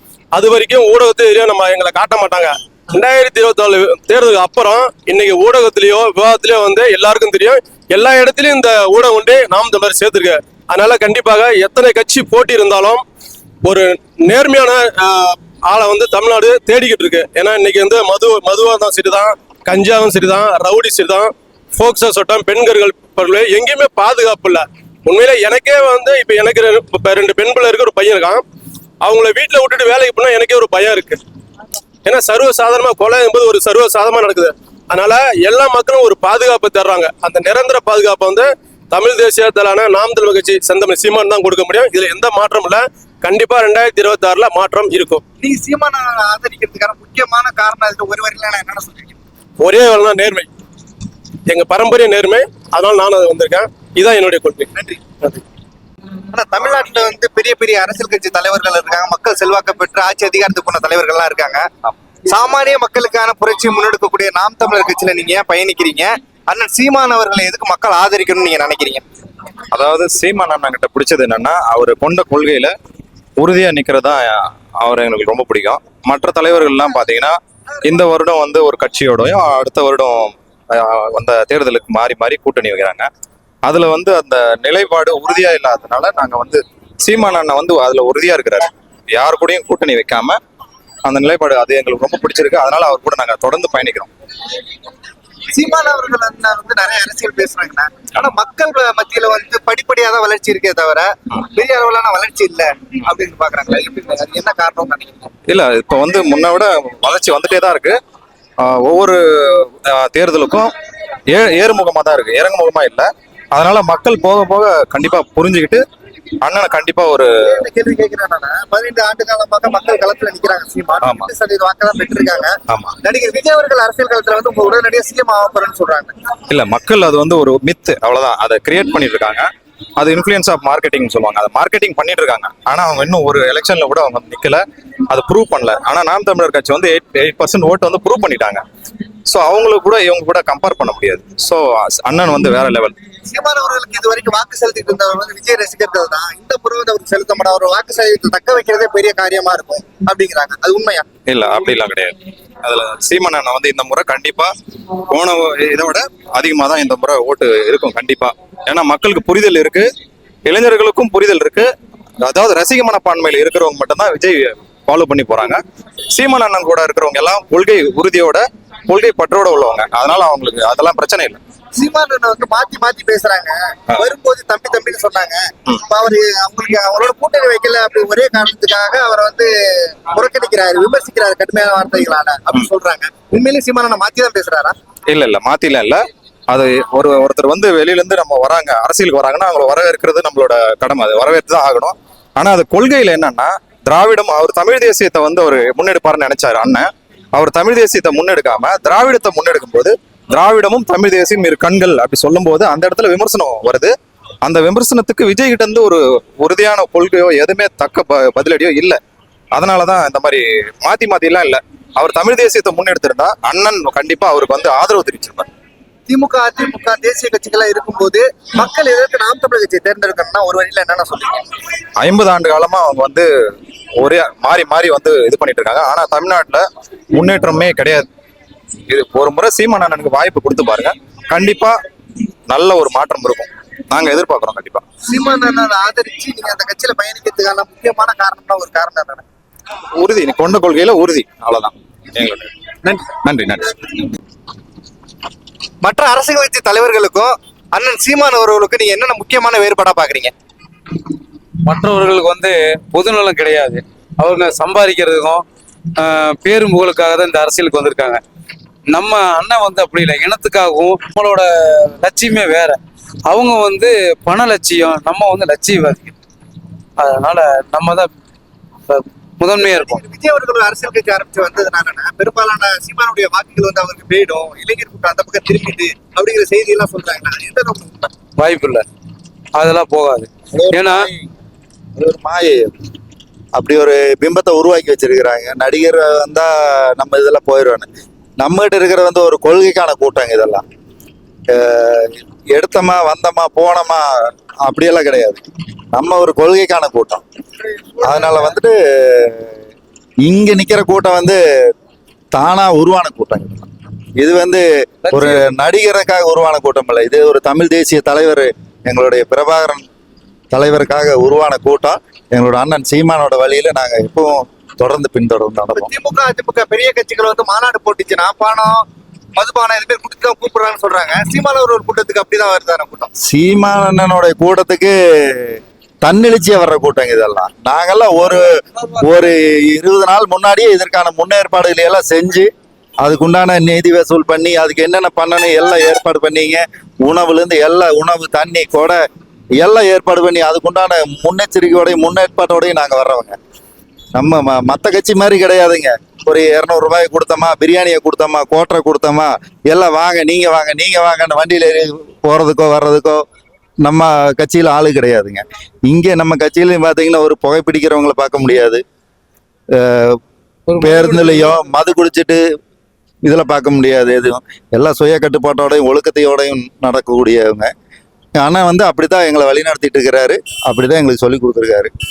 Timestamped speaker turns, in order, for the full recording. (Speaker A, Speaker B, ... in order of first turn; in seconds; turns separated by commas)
Speaker A: 0.3-13.0, Speaker A: 13.7-28.4, Speaker A: 29.0-31.2, Speaker A: 32.1-45.2, Speaker B: 45.4-49.1, Speaker A: 49.6-50.5, Speaker A: 51.5-54.7, Speaker B: 54.7-55.0, Speaker B: 56.3-61.7, Speaker B: 62.3-69.0, Speaker C: 69.7-72.7, Speaker C: 73.4-83.1, Speaker C: 83.6-90.4, Speaker C: 91.1-94.1, Speaker B: 95.5-105.3, Speaker C: 105.5-108.0, Speaker C: 108.6-110.7, Speaker C: 111.3-115.8, Speaker C: 116.4-117.3, Speaker B: 117.5-126.2, Speaker C: 121.0-121.3, Speaker C: 122.7-123.0, Speaker C: 126.5-129.4, Speaker C: 130.0-138.6, Speaker C: 139.3-143.0, Speaker B: 143.3-151.1, Speaker C: 151.3-154.5, Speaker C: 155.1-159.9, Speaker C: 160.5-161.7, Speaker C: 162.2-165.6, Speaker C: 166.1-171.4, Speaker B: 171.8-184.8, Speaker C: 185.1-186.0, Speaker C: 186.5-209.0, Speaker C: 209.6-215.5, Speaker B: 216.1-221.5, Speaker C: 222.0-223.3, Speaker C: 224.0-226.6, Speaker C: 227.2-228.1, Speaker C: 228.9-231.8, Speaker C: 232.5-234.8, Speaker B: 235.1-239.2, Speaker C: 240.0-242.5, Speaker C: 243.2-243.8, Speaker B: 245.8-250.3, Speaker D: 251.6-255.4, Speaker D: 256.0-258.2, Speaker D: 258.9-266.1, Speaker D: 267.0-268.1, Speaker D: 268.9-270.0, Speaker B: 269.5-278.1, Speaker D: 278.4-278.9, Speaker D: 279.6-281.1, Speaker E: 280.6-281.1, Speaker E: 282.0-282.7, Speaker E: 283.6-287.9, Speaker E: 288.4-290.6, Speaker E: 291.5-294.1, Speaker E: 294.7-295.4, Speaker E: 295.9-297.2, Speaker E: 298.0-299.5, Speaker E: 300.2-301.4, Speaker E: 302.3-303.7, Speaker E: 304.2-309.9, Speaker D: 305.1-305.4, Speaker E: 310.5-315.9, Speaker B: 315.8-318.8, Speaker B: 319.4-323.1, Speaker E: 323.2-328.4, Speaker E: 329.0-332.5, Speaker E: 333.0-339.0, Speaker E: 339.6-343.4, Speaker E: 344.1-353.2, Speaker E: 353.9-358.8, Speaker E: 359.8-360.2, Speaker D: 360.7-361.5, Speaker E: 360.8-362.4, Speaker E: 363.2-367.7, Speaker E: 368.4-371.9